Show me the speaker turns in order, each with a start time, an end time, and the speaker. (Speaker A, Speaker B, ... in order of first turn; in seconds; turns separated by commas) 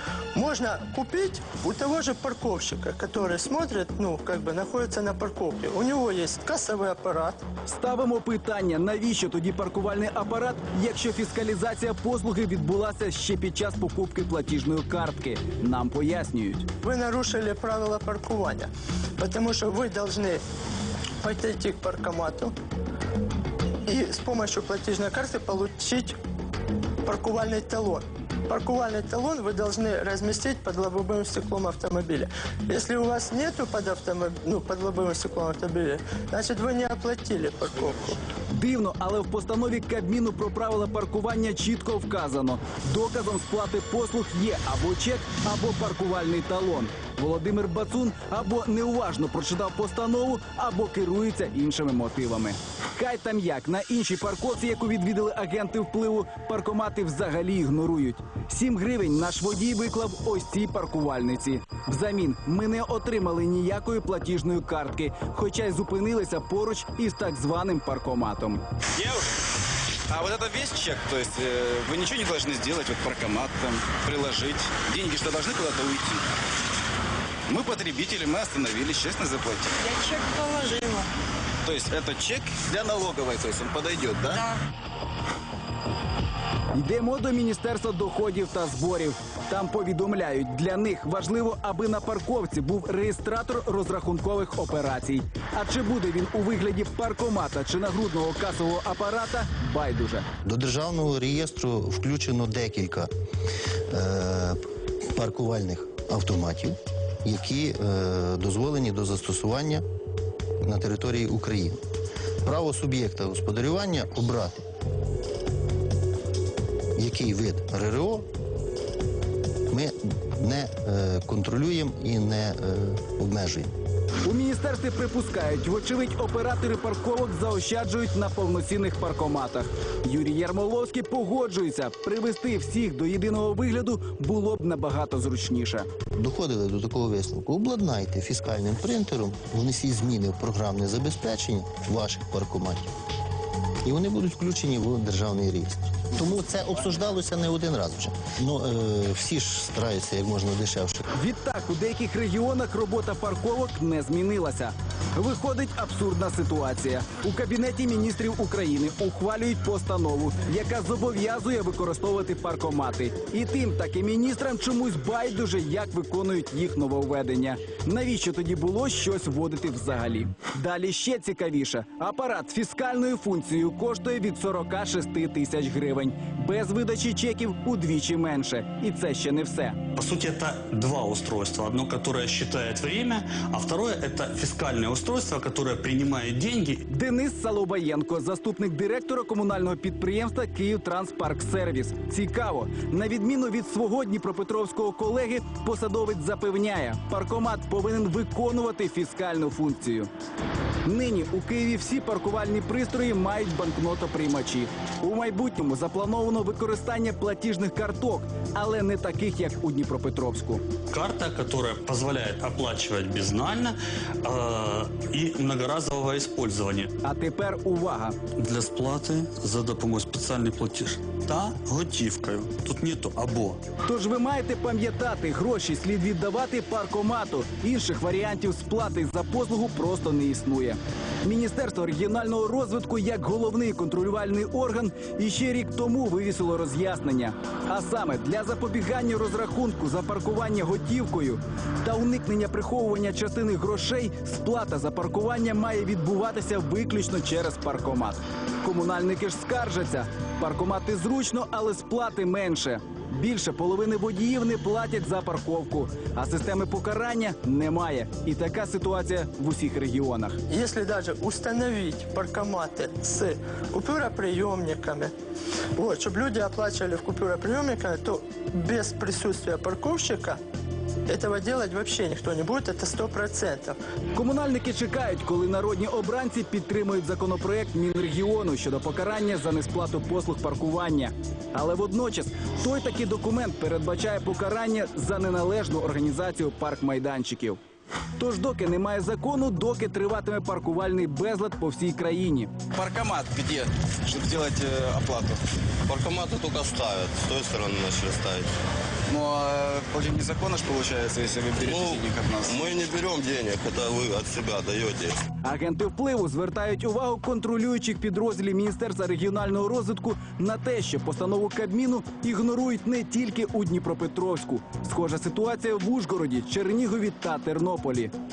Speaker A: 0.3-7.4, Speaker B: 7.7-16.6, Speaker A: 16.8-20.4, Speaker A: 21.2-22.5, Speaker A: 23.9-26.2, Speaker A: 27.0-38.2, Speaker B: 38.5-68.6, Speaker C: 79.8-81.1, Speaker C: 81.9-84.3, Speaker B: 86.7-100.2, Speaker D: 100.4-103.1, Speaker D: 103.9-104.6, Speaker D: 105.1-109.8, Speaker D: 110.6-111.8, Speaker D: 112.4-114.6, Speaker D: 117.0-118.3, Speaker D: 119.7-123.7, Speaker B: 124.2-135.9, Speaker D: 136.2-142.9, Speaker D: 143.8-151.0, Speaker B: 151.1-179.8, Speaker E: 179.9-186.8, Speaker B: 186.9-200.1, Speaker B: 200.8-210.6, Speaker E: 210.9-216.9, Speaker B: 217.0-218.2, Speaker E: 218.4-223.6, Speaker B: 223.8-260.4, Speaker A: 260.5-265.1, Speaker A: 265.8-270.4, Speaker A: 271.1-273.8, Speaker B: 274.1-287.6, Speaker B: 288.2-292.8, Speaker C: 292.8-295.4, Speaker F: 295.9-298.5, Speaker C: 299.1-302.5, Speaker F: 301.6-305.2, Speaker B: 305.4-318.1